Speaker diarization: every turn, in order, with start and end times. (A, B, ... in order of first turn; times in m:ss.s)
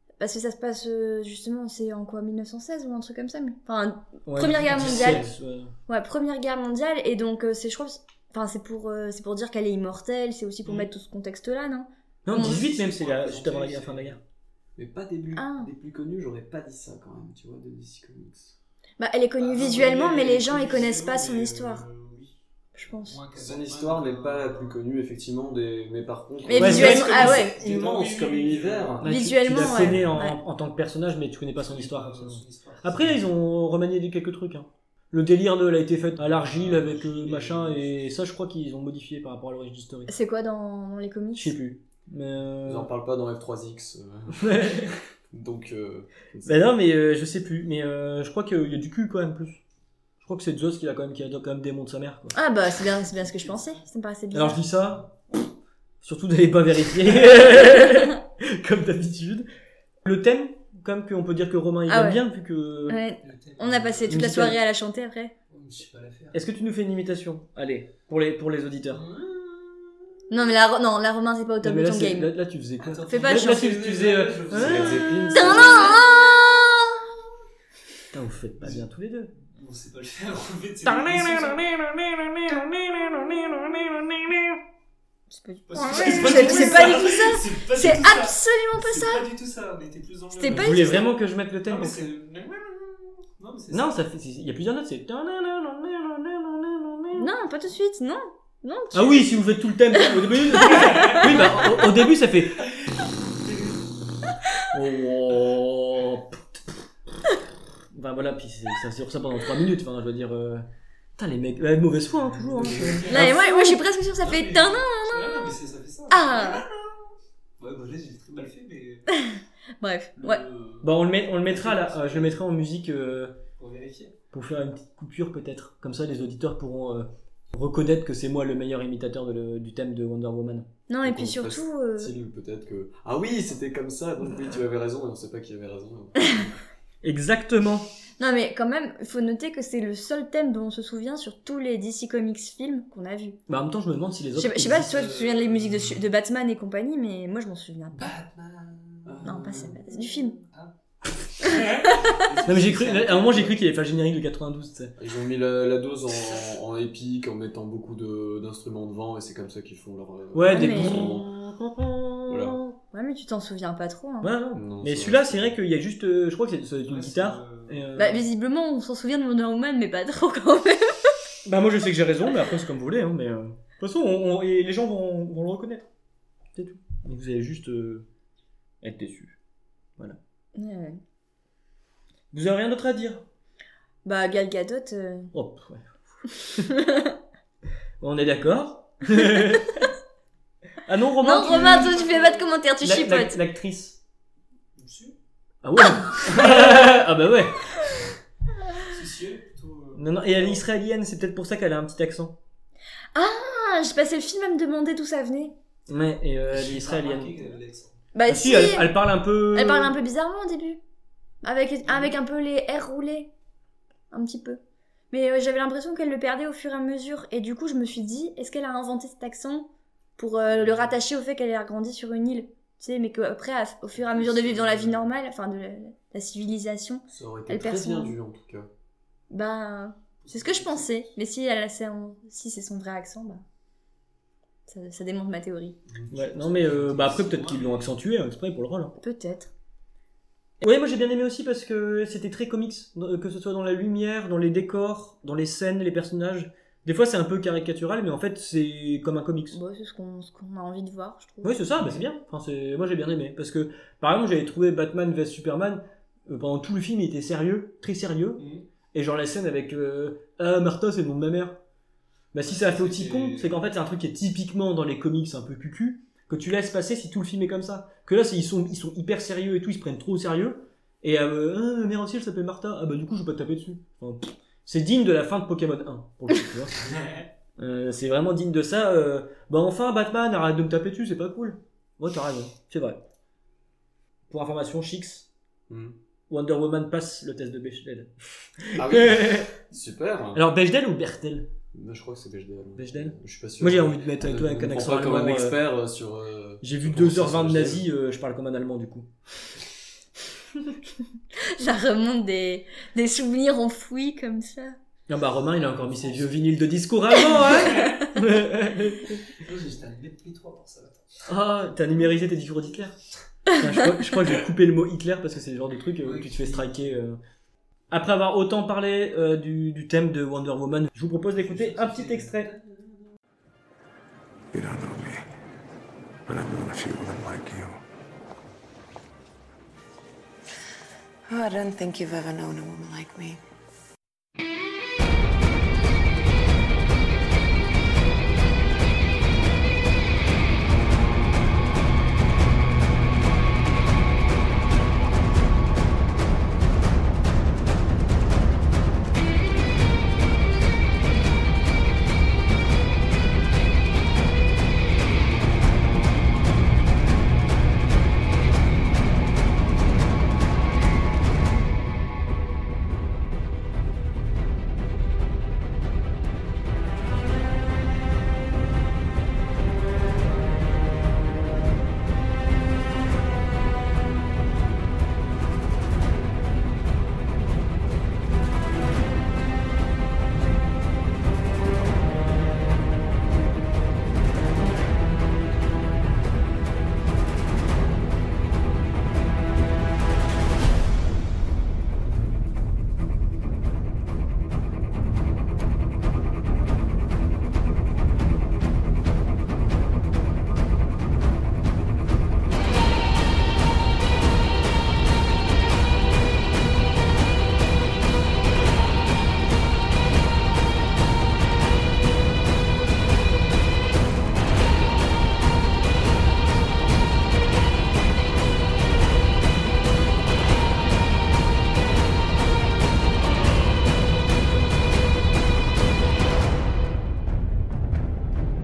0:00.2-0:05.3 A
0:04.3-0:05.8 B
0:05.9-0:12.6 A
0:12.3-0:14.2 B
0:12.3-0:14.2 C
0:14.8-0:18.6 D
0:15.4-0:15.7 A
0:19.0-0:21.8 A
0:19.4-0:22.4 C
0:22.8-0:23.2 A
0:23.1-0:24.8 C
0:23.4-0:29.1 D
0:26.4-0:27.6 A
0:26.5-0:27.5 B
0:26.6-0:29.1 C
0:29.0-0:40.1 B
0:29.0-0:30.4 A
0:31.6-0:33.2 C
0:36.2-0:37.9 C
0:40.1-0:41.6 A
0:41.3-0:42.9 B
0:42.7-0:46.7 D
0:44.4-0:44.9 B
0:46.4-0:49.6 B
0:50.2-0:52.4 B
0:52.3-0:54.6 A
0:52.8-0:53.8 C
0:54.3-0:55.1 B
0:56.0-0:59.5 B
1:00.0-1:03.0 B
1:01.9-1:02.2 A
1:02.9-1:05.3 A
1:03.2-1:04.4 C
1:04.1-1:04.6 B
1:05.5-1:06.4 C
1:06.3-1:09.0 B
1:08.9-1:10.0 C
1:10.3-1:12.3 A
1:11.6-1:15.9 B
1:12.8-1:15.9 C
1:13.1-1:13.6 A
1:14.5-1:15.9 D
1:15.3-1:17.0 A
1:18.1-1:19.3 B
1:18.6-1:18.9 C
1:19.4-1:21.6 C
1:20.8-1:24.6 B
1:25.3-1:29.3 A
1:25.7-1:31.0 C
1:25.9-1:27.2 B
1:30.4-1:31.1 A
1:30.4-1:32.0 B
1:31.7-1:34.0 C
1:33.7-1:37.3 B
1:37.1-1:39.3 A
1:38.9-1:42.7 B
1:40.6-1:41.3 A
1:40.7-1:41.7 C
1:43.5-1:43.7 C
1:44.7-1:46.9 B
1:47.9-1:50.7 B
1:51.2-1:53.8 B
1:52.2-1:57.0 C
1:53.1-1:55.5 A
1:56.1-1:56.7 A
1:57.6-1:59.1 C
1:59.1-2:00.4 A
2:00.2-2:02.4 C
2:00.8-2:03.4 B
2:03.6-2:04.2 C
2:04.3-2:10.7 B
2:10.9-2:12.1 A
2:11.0-2:16.6 D
2:17.0-2:17.9 B
2:18.2-2:23.4 A
2:23.5-2:25.1 B
2:24.3-2:28.1 A
2:24.8-2:25.6 C
2:28.0-2:29.4 C
2:29.1-2:29.8 D
2:29.2-2:30.4 A
2:31.4-2:33.6 C
2:31.4-2:32.1 A
2:32.4-2:35.0 B
2:35.0-2:41.3 D
2:40.3-2:42.8 B
2:40.4-2:41.2 A
2:42.3-2:42.6 D
2:42.9-2:44.3 A
2:44.2-2:48.2 B
2:44.5-2:45.6 D
2:46.8-2:47.9 C
2:48.0-2:51.1 A
2:51.4-2:55.9 B
2:56.6-2:58.1 B
2:58.8-2:59.4 B
3:00.6-3:01.0 A
3:02.3-3:03.2 B
3:04.0-3:05.3 A
3:05.3-3:06.0 B
3:06.7-3:07.2 A
3:08.0-3:09.9 B
3:10.8-3:12.1 B
3:11.2-3:13.4 A
3:11.5-3:12.5 C
3:12.8-3:14.0 B
3:14.8-3:15.2 C
3:15.6-3:17.8 B
3:18.8-3:20.7 C
3:20.0-3:22.4 B
3:23.1-3:25.6 A
3:25.9-3:27.4 B
3:26.5-3:28.0 C
3:28.1-3:29.0 A
3:28.3-3:30.0 B
3:29.5-3:30.8 A
3:31.4-3:33.3 A
3:31.8-3:32.1 C
3:34.1-3:34.6 A
3:35.1-3:48.2 A
3:40.5-3:41.0 C
3:44.0-3:45.1 C
3:47.1-3:48.7 D
3:49.3-3:53.4 A
3:50.2-3:51.1 C
3:54.7-3:55.8 A
3:55.9-3:57.1 D
3:56.1-3:59.0 B
3:56.2-3:58.0 C
3:59.0-3:59.5 A
4:00.6-4:09.6 B
4:09.5-4:11.7 A
4:11.4-4:21.6 B
4:18.4-4:18.6 C
4:22.3-4:36.9 B
4:22.4-4:23.6 C
4:37.6-4:43.0 B
4:44.3-4:45.3 B
4:45.7-4:46.0 D
4:46.3-4:49.6 B
4:48.8-4:50.4 D
4:50.3-4:51.5 B
4:51.7-4:57.8 D
4:52.8-4:55.6 B
4:56.6-4:59.1 B
5:01.4-5:04.8 A
5:05.1-5:09.2 B
5:05.4-5:06.6 C
5:07.4-5:08.0 A
5:07.5-5:08.0 C
5:09.3-5:11.3 C
5:11.3-5:13.0 B
5:13.5-5:17.2 B
5:16.0-5:16.9 C
5:17.9-5:22.5 B
5:21.3-5:23.0 C
5:24.5-5:25.2 E
5:26.3-5:27.8 E
5:31.3-5:33.4 F